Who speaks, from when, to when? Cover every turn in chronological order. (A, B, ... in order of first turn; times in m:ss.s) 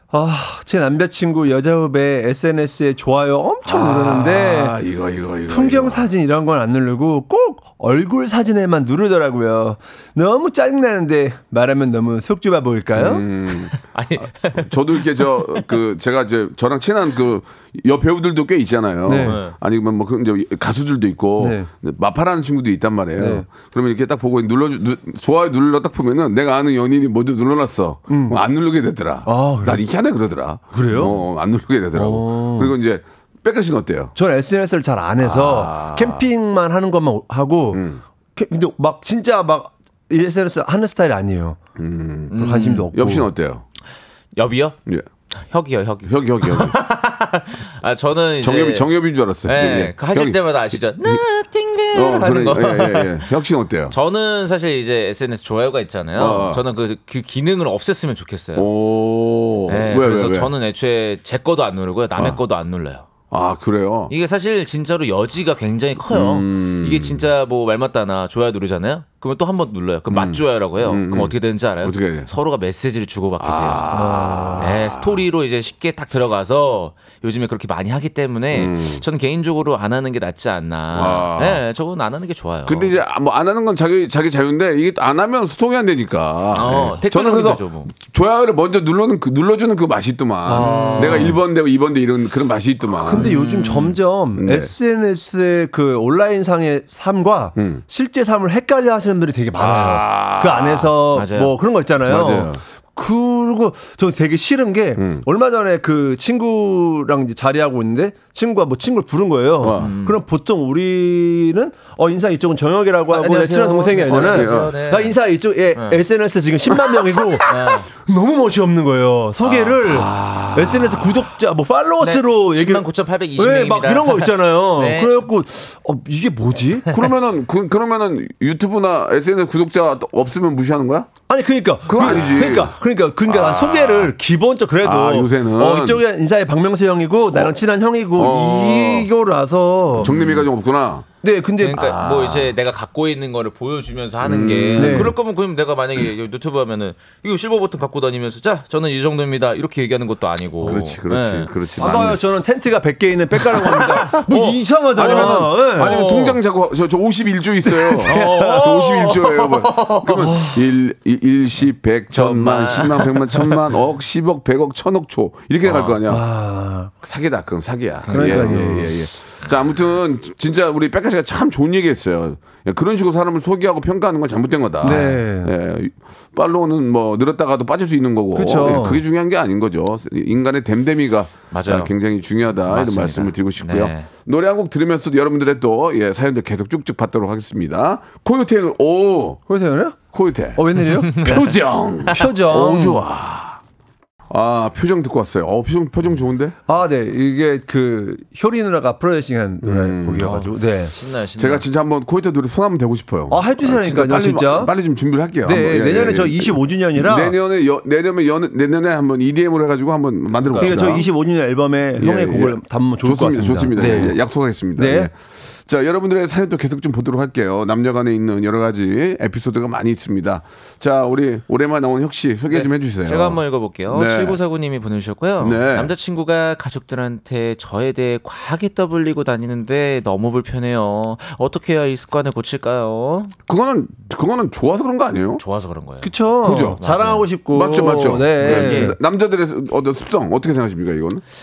0:00.1-0:04.7 A
0:03.6-0:06.1 B
0:05.5-0:13.2 A
0:12.9-0:13.8 B
0:13.7-0:15.7 C
0:14.5-0:34.1 B
0:19.0-0:19.4 A
0:19.2-0:19.6 C
0:21.4-0:21.7 A
0:23.2-0:23.4 A
0:28.1-0:28.4 A
0:29.2-0:29.8 A
0:30.7-0:31.2 A
0:31.9-0:32.7 A
0:34.2-0:41.6 A
0:35.2-0:36.2 B
0:37.7-0:38.0 B
0:41.8-0:42.4 B
0:42.3-0:42.9 C
0:42.3-0:43.3 A
0:42.9-0:43.6 B
0:44.4-0:44.8 C
0:45.3-0:48.9 C
0:46.1-0:46.8 B
0:48.4-0:51.2 B
0:49.4-0:53.2 C
0:51.9-0:53.9 B
0:53.9-0:58.7 C
0:56.2-0:56.6 B
0:58.6-1:00.5 B
0:59.7-1:03.1 C
1:03.3-1:04.1 B
1:04.1-1:13.8 C
1:06.1-1:07.2 B
1:10.1-1:12.3 B
1:13.4-1:15.2 B
1:13.9-1:14.7 A
1:14.6-1:23.0 C
1:18.5-1:19.0 B
1:20.9-1:21.6 B
1:22.6-1:33.3 B
1:26.5-1:27.9 C
1:30.4-1:31.4 A
1:30.5-1:31.4 C
1:33.0-2:07.0 A
1:33.1-1:33.9 C
1:34.3-1:34.7 B
1:37.6-1:37.8 B
1:39.6-1:40.9 B
1:41.1-1:41.5 C
1:42.0-1:42.6 B
1:45.0-1:45.2 B
1:49.6-1:49.9 B
1:49.7-1:50.2 C
1:53.1-1:55.2 C
1:54.1-1:54.7 B
1:55.7-1:56.0 C
1:57.5-1:57.9 C
1:59.4-1:59.8 C
1:59.8-2:01.2 B
2:02.0-2:05.2 C
2:06.9-2:11.1 B
2:11.3-2:20.1 A
2:11.9-2:12.7 B
2:13.2-2:14.1 B
2:14.8-2:16.0 B
2:18.2-2:19.1 B
2:20.0-2:21.0 B
2:21.2-2:21.8 A
2:21.6-2:31.5 C
2:21.7-2:22.5 B
2:24.2-2:25.1 B
2:24.8-2:25.1 A
2:30.6-2:32.2 B
2:31.8-2:36.0 A
2:33.9-2:46.2 B
2:34.1-2:34.4 C
2:35.0-2:36.4 C
2:37.6-2:38.7 A
2:38.0-2:40.3 C
2:40.2-2:40.6 A
2:42.1-2:43.6 C
2:45.6-2:46.0 C
2:46.1-2:46.9 A
2:47.0-3:09.4 B
2:48.0-2:48.7 C
2:48.1-2:48.9 A
2:54.8-2:55.5 A
2:54.8-2:55.2 C
2:58.3-2:59.0 A
3:01.5-3:01.9 C
3:02.7-3:04.1 C
3:09.5-3:10.0 A
3:10.1-3:13.6 B
3:10.5-3:11.4 A
3:11.1-3:11.5 C
3:12.1-3:13.0 A
3:14.3-3:16.6 B
3:16.7-3:20.9 A
3:19.6-3:20.4 B
3:20.2-3:21.6 C
3:21.4-3:31.1 B
3:23.3-3:24.7 A
3:25.4-3:27.4 A
3:30.4-3:30.8 C
3:30.6-3:34.2 A
3:32.0-3:35.1 B
3:34.8-3:35.1 A
3:35.7-3:44.4 B
3:42.5-3:53.3 C
3:45.4-3:45.9 B
3:53.5-3:55.4 B
3:55.4-3:57.3 C
3:56.0-3:59.0 A
3:56.4-3:56.8 B
3:57.5-4:01.2 B
3:58.4-3:59.0 C